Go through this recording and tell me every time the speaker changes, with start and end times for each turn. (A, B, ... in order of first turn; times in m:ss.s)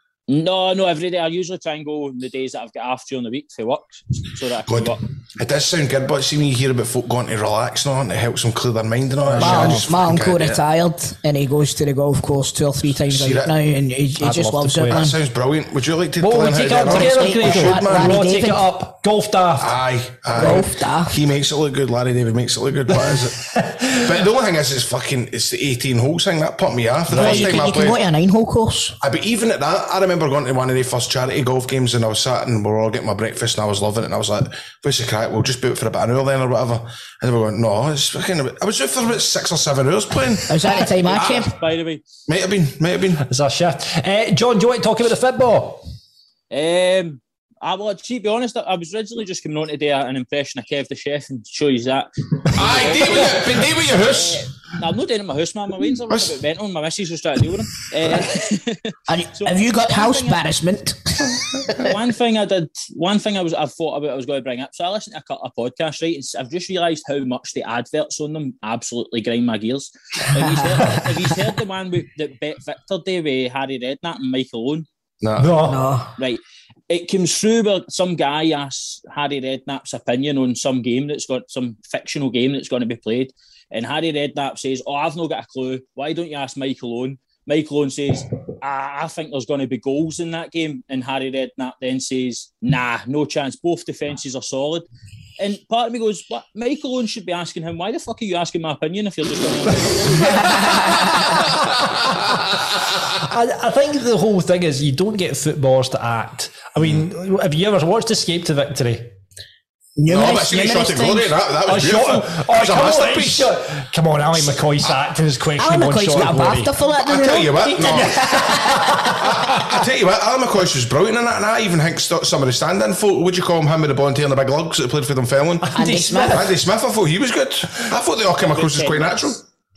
0:00.3-0:05.0 A
0:04.7-0:10.6 B
0:09.3-0:09.9 C
0:09.4-0:15.2 D
0:13.1-0:13.6 B
0:14.2-0:15.0 C
0:14.9-0:18.3 B
0:16.2-0:19.8 C
0:16.8-0:18.7 D
0:19.6-0:28.0 B
0:20.3-0:21.2 D
0:23.1-0:24.1 C
0:27.1-0:29.0 D
0:29.0-0:40.6 B
0:40.5-0:41.5 D
0:41.1-0:42.0 A
0:42.3-0:43.2 B
0:43.2-0:45.8 C
0:46.5-1:00.4 A
0:52.6-0:54.4 B
0:59.1-1:01.4 D
1:01.8-1:14.9 A
1:10.3-1:10.7 D
1:15.2-1:15.6 B
1:15.4-1:15.8 C
1:15.6-1:16.1 D
1:16.2-1:34.9 A
1:35.4-1:41.2 A
1:40.3-1:41.3 C
1:43.2-1:49.2 C
1:50.0-1:51.3 D
1:50.1-1:53.5 B
1:51.7-1:56.7 C
1:55.6-1:58.7 D
1:57.0-1:58.5 B
1:57.7-1:59.8 C
1:59.2-2:09.4 B
2:05.6-2:06.5 C
2:05.8-2:06.5 D
2:08.4-2:09.4 A